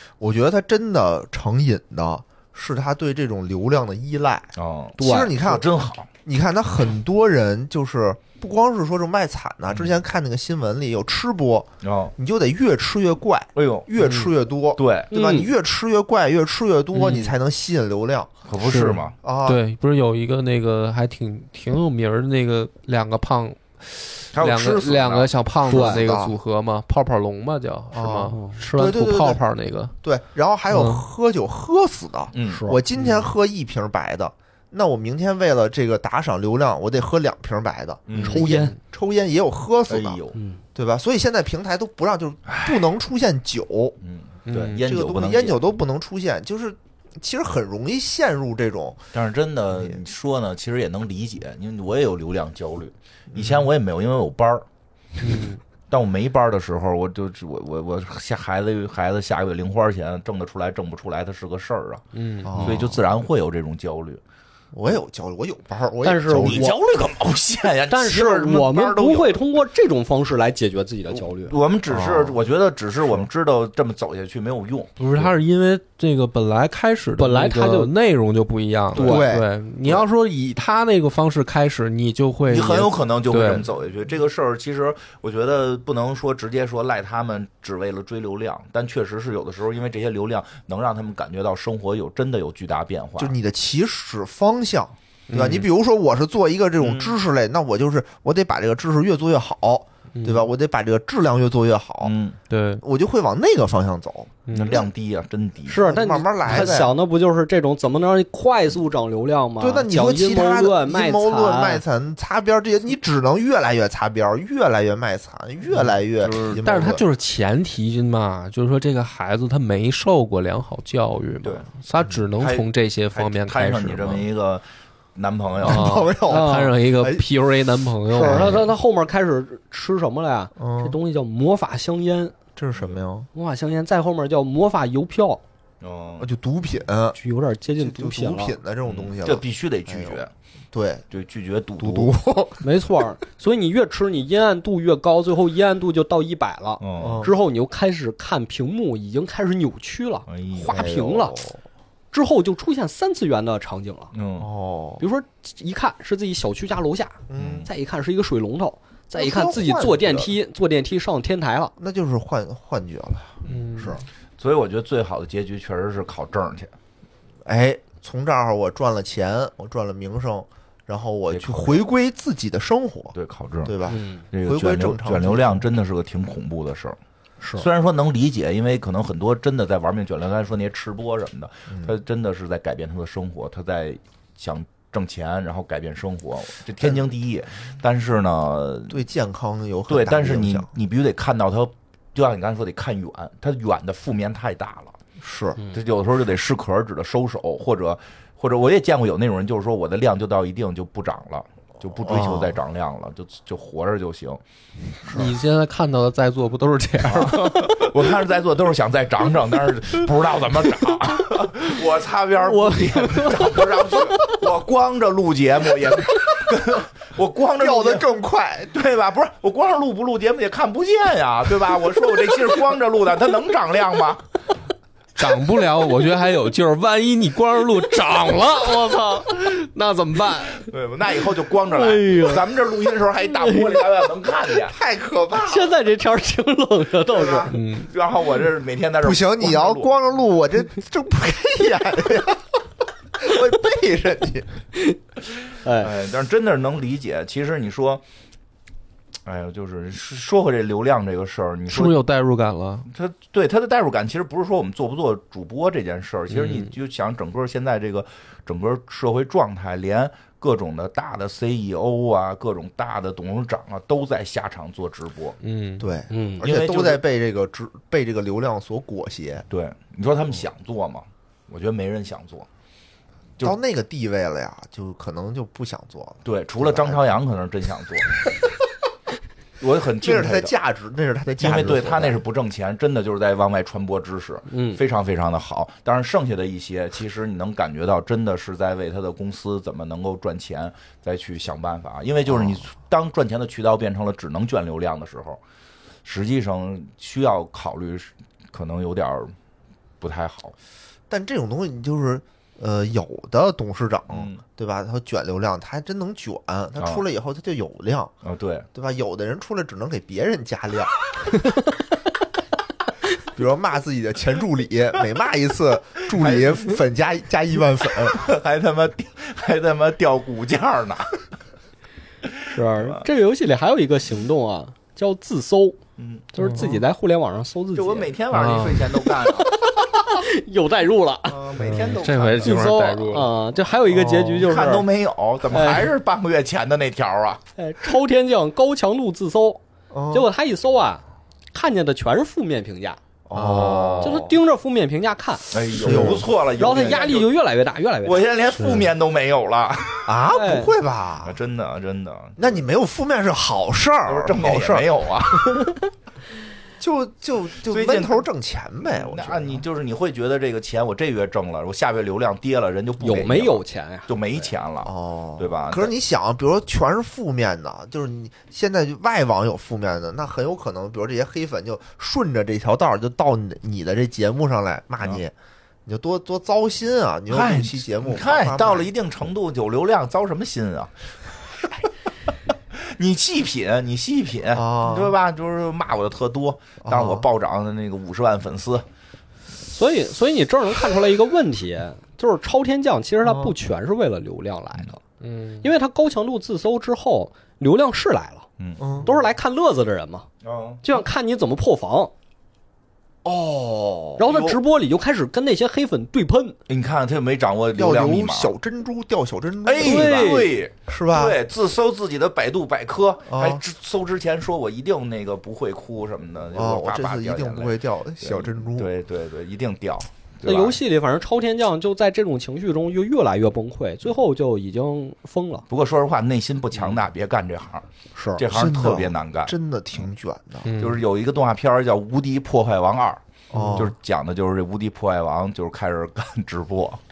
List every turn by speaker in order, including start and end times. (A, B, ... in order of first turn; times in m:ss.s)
0:00.2-0:05.7 A
0:04.6-0:06.1 B
0:05.0-0:05.3 C
0:06.2-0:18.4 A
0:11.8-0:12.1 B
0:13.6-0:13.9 B
0:14.0-0:14.3 D
0:14.8-0:15.1 B
0:15.1-0:15.5 C
0:16.9-0:17.4 D
0:18.5-0:19.2 B
0:18.6-0:30.0 D
0:19.2-0:19.6 A
0:24.3-0:25.8 B
0:25.7-0:26.0 C
0:25.7-0:26.4 A
0:27.9-0:29.5 A
0:28.3-0:28.6 C
0:30.0-0:40.2 A
0:30.7-0:31.0 D
0:32.3-0:32.6 B
0:32.5-0:32.8 C
0:38.1-0:38.6 B
0:38.2-0:38.8 C
0:39.9-0:40.4 B
0:40.4-0:40.6 C
0:40.8-0:44.0 A
0:42.5-0:42.8 B
0:44.0-0:45.6 B
0:44.5-0:44.8 D
0:44.8-0:49.0 A
0:49.1-0:54.7 B
0:49.7-0:50.0 A
0:53.3-0:53.7 A
0:55.2-0:55.6 D
0:55.9-1:02.0 B
1:02.1-1:02.7 D
1:02.4-1:03.0 A
1:02.6-1:04.2 B
1:04.7-1:06.7 A
1:06.0-1:06.8 C
1:06.4-1:09.5 B
1:07.9-1:11.5 C
1:11.2-1:15.3 B
1:11.9-1:12.4 A
1:15.0-1:23.7 D
1:17.2-1:17.9 C
1:18.9-1:19.3 B
1:19.0-1:19.5 A
1:19.0-1:19.2 C
1:22.5-1:33.3 B
1:33.2-1:42.1 A
1:35.3-1:35.7 D
1:36.8-1:37.2 B
1:40.2-1:40.5 D
1:42.0-1:42.4 B
1:42.5-1:42.8 D
1:42.8-1:44.9 A
1:44.5-1:44.8 D
1:44.5-1:45.8 B
1:45.7-1:51.8 C
1:45.7-1:46.9 A
1:46.5-1:46.8 B
1:49.6-1:57.0 A
1:56.2-1:56.6 B
1:56.6-2:04.3 D
2:01.4-2:01.7 B
2:02.4-2:04.6 B
2:05.2-2:06.0 B
2:05.6-2:07.3 A
2:05.6-2:08.6 D
2:06.3-2:06.7 C
2:08.1-2:12.4 C
2:08.1-2:08.7 A
2:10.6-2:11.0 A
2:12.6-2:13.3 A
2:13.3-2:15.4 C
2:15.8-2:16.3 B
2:16.2-2:17.2 A
2:17.2-2:18.6 C
2:17.8-2:21.1 A
2:18.9-2:20.3 B
2:21.1-2:22.1 B
2:21.8-2:22.6 A
2:22.6-2:31.4 C
2:26.8-2:27.2 B
2:27.0-2:27.3 A
2:30.3-2:30.8 B
2:30.7-2:31.6 A
2:32.1-2:34.1 C
2:34.1-2:34.5 B
2:34.4-2:35.0 A
2:35.0-2:41.7 C
2:37.3-2:37.7 A
2:37.4-2:37.7 B
2:39.2-2:40.3 A
2:41.8-2:44.0 A
2:43.5-2:44.0 D
2:44.4-2:46.7 B
2:47.4-2:55.7 A
2:51.3-2:51.8 B
2:53.2-2:57.0 B
2:53.9-2:54.2 C
2:57.4-2:57.7 C
2:57.6-3:09.0 B
3:08.9-3:10.7 A
3:09.9-3:15.0 B
3:15.2-3:15.6 A
3:15.7-3:24.4 B
3:22.0-3:22.6 A
3:25.1-3:25.3 A
3:25.1-3:28.1 D
3:27.1-3:38.0 B
3:32.5-3:33.5 D
3:37.6-3:38.8 A
3:38.7-3:44.2 B
3:45.2-3:50.7 D
3:50.6-3:54.8 B
3:51.7-3:52.4 C
3:53.2-3:53.8 C
3:54.7-3:55.7 A
3:55.4-3:57.5 C
3:57.2-3:59.9 B
3:57.5-3:57.9 D
3:59.0-4:02.5 A
4:03.2-4:04.5 A
4:05.6-4:05.9 C
4:05.8-4:08.0 B
4:09.2-4:12.0 B
4:11.7-4:12.9 D
4:12.9-4:25.4 B
4:16.3-4:16.7 D
4:25.4-4:25.9 D
4:25.8-4:29.5 A
4:26.1-4:26.4 C
4:26.4-4:27.0 B
4:29.5-4:32.5 B
4:33.4-4:37.1 A
4:36.2-4:38.1 B
4:39.6-4:40.5 B
4:40.0-4:42.2 A
4:41.4-4:55.4 B
4:44.5-4:44.8 C
4:52.3-4:52.6 A
4:56.0-4:59.3 B
5:00.0-5:00.6 B
5:01.1-5:08.1 A
5:04.1-5:04.4 B
5:08.2-5:08.7 B
5:08.7-5:11.5 A
5:13.2-5:18.3 A
5:16.1-5:16.8 B
5:18.0-5:21.2 B
5:22.3-5:23.0 B
5:22.5-5:25.8 C
5:26.0-5:26.3 B
5:26.3-5:28.1 C
5:26.4-5:26.8 D
5:27.8-5:29.5 B
5:28.3-5:28.9 D
5:29.2-5:31.4 C
5:31.3-5:33.2 B
5:31.5-5:32.1 A
5:31.6-5:33.3 D
5:32.4-5:34.9 C
5:33.9-5:34.5 A
5:34.4-5:37.4 B
5:35.5-5:35.9 C
5:37.6-5:39.6 C
5:39.9-5:40.3 A
5:40.1-5:43.0 C
5:43.3-5:44.3 A
5:43.4-5:43.7 D
5:43.4-5:44.3 B
5:44.0-5:48.2 C
5:45.5-5:47.3 B
5:45.8-5:46.3 A
5:48.0-5:50.1 B
5:48.6-5:48.9 D
5:50.0-5:51.4 A
5:50.3-5:50.7 C
5:51.2-5:52.5 B
5:52.4-5:54.9 A
5:54.1-5:55.7 B
5:56.8-5:59.6 A
5:57.7-5:58.3 B
5:58.9-6:05.9 B
6:03.0-6:04.5 C
6:04.8-6:15.3 A
6:15.9-6:18.9 A
6:17.3-6:21.9 B
6:22.7-6:28.8 B
6:24.5-6:25.2 A
6:26.8-6:27.3 A
6:29.7-6:35.0 C
6:33.2-6:33.5 A
6:35.2-6:35.7 D
6:35.6-6:38.5 C
6:38.6-6:38.8 B
6:38.8-6:39.1 A
6:39.0-6:40.3 C
6:40.4-6:40.8 B
6:40.8-6:42.1 C
6:43.2-6:44.2 A
6:44.2-6:46.6 C
6:44.3-6:44.6 B
6:46.7-6:48.5 B
6:47.8-6:51.4 A
6:49.6-7:00.8 B
6:49.8-6:50.5 C
6:53.3-6:53.6 A
6:56.5-6:58.9 A
7:00.4-7:05.6 C
7:05.7-7:09.5 B
7:08.2-7:10.7 A
7:10.6-7:11.0 D
7:10.8-7:13.2 B
7:13.5-7:13.9 A
7:13.5-7:13.9 D
7:13.7-7:17.0 B